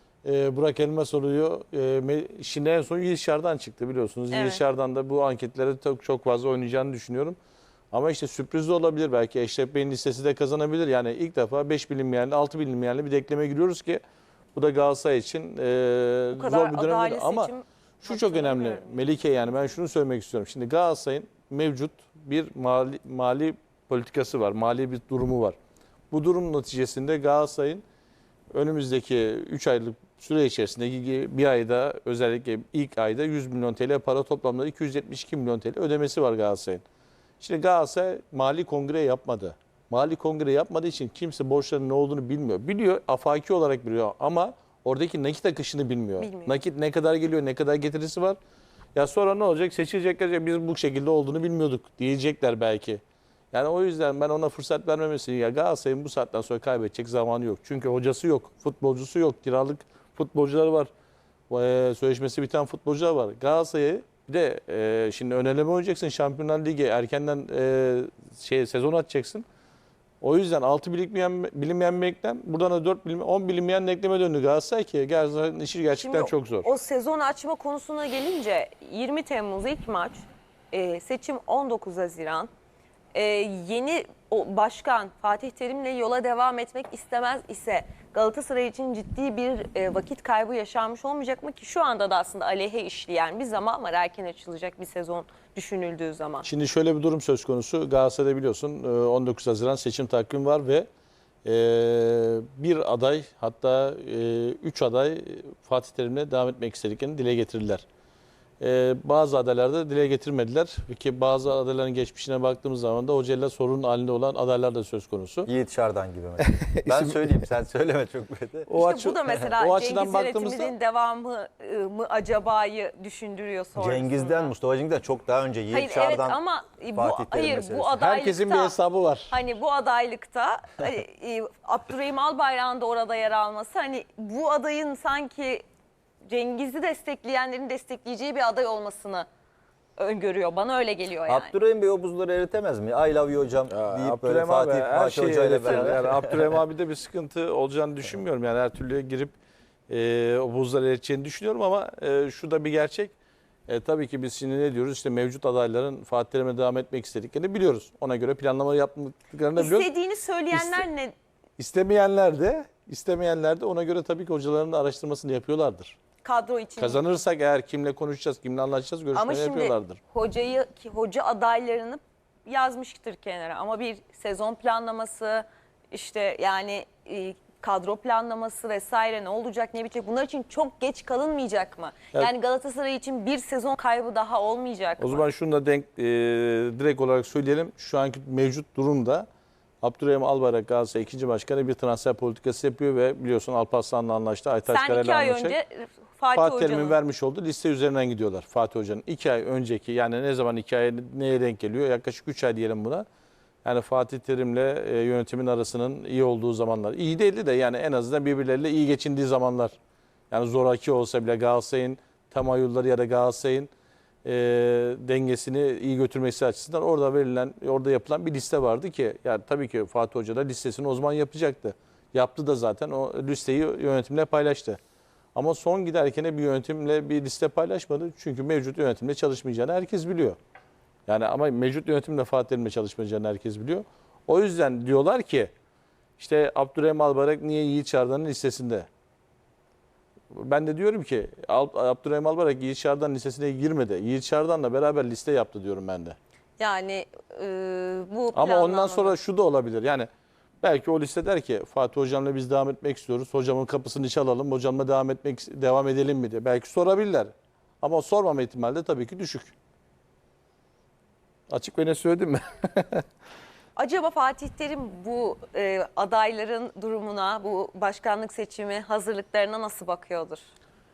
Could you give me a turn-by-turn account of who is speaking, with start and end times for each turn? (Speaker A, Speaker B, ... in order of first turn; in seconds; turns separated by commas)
Speaker A: 0.2-7.4, Speaker B: 4.3-4.6, Speaker A: 7.9-14.0, Speaker A: 14.5-25.6, Speaker B: 16.3-19.0, Speaker A: 26.1-27.8, Speaker A: 28.5-36.8, Speaker A: 37.4-48.4, Speaker B: 46.2-46.5, Speaker A: 48.9-53.0, Speaker A: 53.5-60.9, Speaker A: 61.5-69.4, Speaker A: 70.2-76.7, Speaker B: 75.9-82.5, Speaker B: 83.1-96.5, Speaker A: 96.4-100.9, Speaker A: 101.4-107.8, Speaker A: 108.6-115.5, Speaker C: 115.5-118.7, Speaker A: 116.4-117.3, Speaker A: 118.7-120.7, Speaker B: 118.8-124.5, Speaker C: 123.8-126.4, Speaker B: 125.7-128.7, Speaker C: 126.9-128.0, Speaker A: 128.0-129.3, Speaker B: 129.3-135.6, Speaker B: 136.2-139.3, Speaker B: 140.0-141.5, Speaker C: 141.2-146.5, Speaker A: 143.7-149.3, Speaker A: 149.9-153.1, Speaker A: 153.7-159.9, Speaker B: 159.6-161.1, Speaker A: 160.5-160.8, Speaker A: 161.6-166.0, Speaker B: 166.2-167.0, Speaker A: 166.8-170.0, Speaker B: 169.1-185.2, Speaker A: 185.0-189.3, Speaker A: 189.8-195.6, Speaker B: 194.6-197.0, Speaker A: 196.3-203.1, Speaker A: 203.6-209.8, Speaker A: 210.3-213.7, Speaker A: 214.2-224.8, Speaker A: 225.3-230.4, Speaker A: 231.1-235.5, Speaker A: 236.2-238.9, Speaker A: 240.3-246.2, Speaker B: 246.6-249.2, Speaker A: 248.3-250.1, Speaker A: 250.6-259.5, Speaker A: 261.5-263.0, Speaker B: 263.8-270.4